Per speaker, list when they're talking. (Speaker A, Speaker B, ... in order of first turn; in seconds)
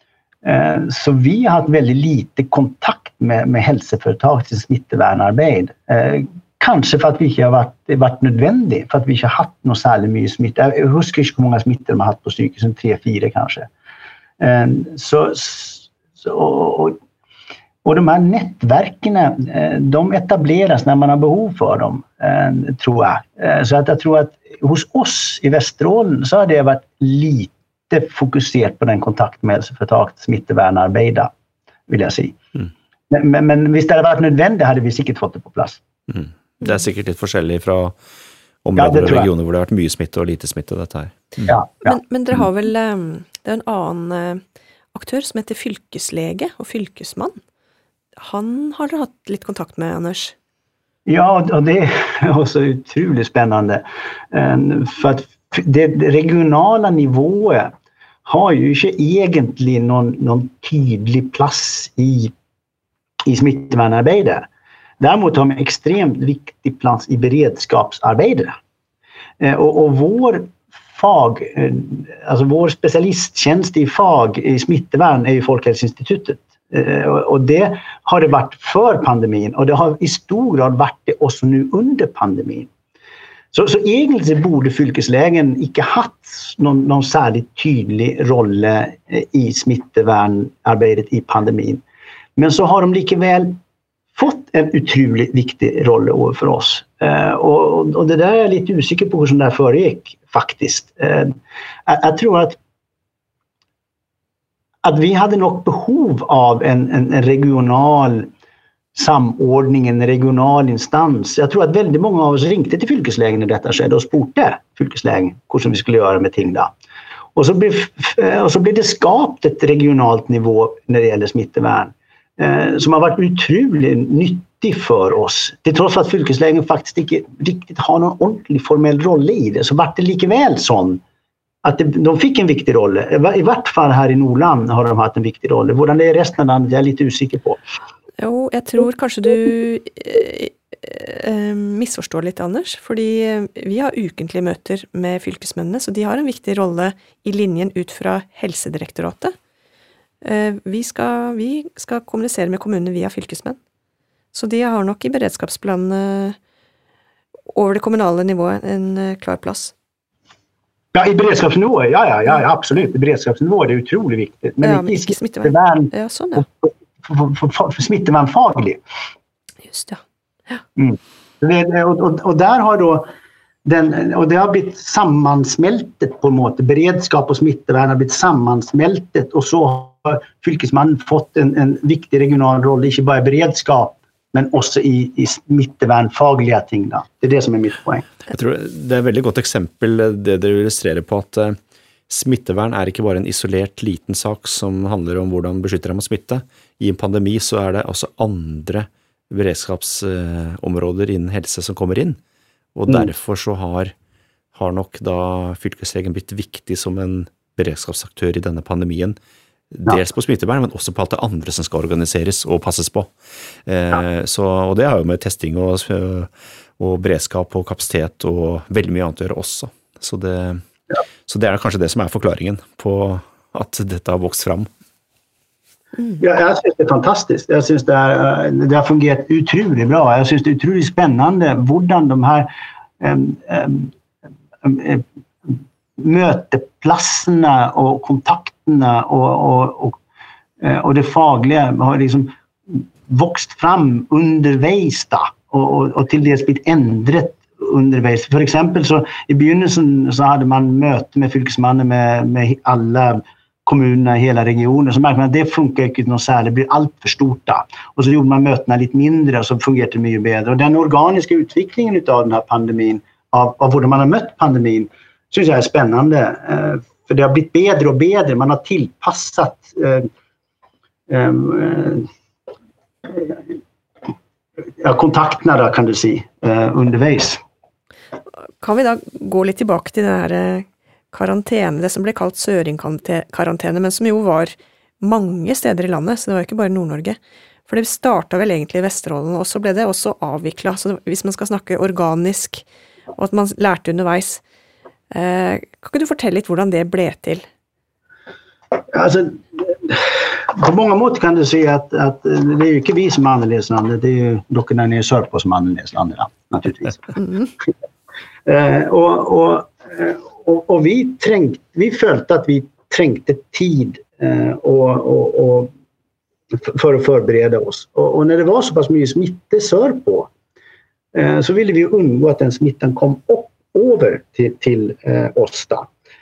Speaker A: 0.4-13.7, 14.4-17.0, 17.8-31.3, 31.9-32.4, 33.1-35.8, 38.8-39.3, 41.5-42.0, 51.0-57.7, 58.2-62.3, 63.2-64.5, 65.0-68.5, 69.4-82.7, 83.5-91.8, 92.3-93.6, 94.1-102.6, 104.8-108.3, 108.9-116.7, 117.3-131.0, 131.6-137.6, 160.9-168.8, 170.8-173.1, 173.6-188.1, 226.2-232.5, 233.0-233.9, 234.6-240.0, 240.6-270.1, 271.1-272.1, 273.1-273.4, 274.8-277.4, 298.9-307.7, 308.4-315.7, 316.5-320.3, 321.1-325.9
Speaker B: 36.1-38.0, 38.6-41.5, 188.3-191.6, 192.1-202.2, 202.7-203.9, 204.5-209.2, 209.7-213.1, 213.7-220.6, 221.3-224.7
Speaker C: 41.8-44.4, 44.9-47.4, 48.2-50.3, 138.2-149.3, 150.2-153.6, 154.3-156.4, 157.5-159.7, 164.6-166.4, 169.7-170.6, 278.6-292.6, 293.1-294.4, 295.1-297.4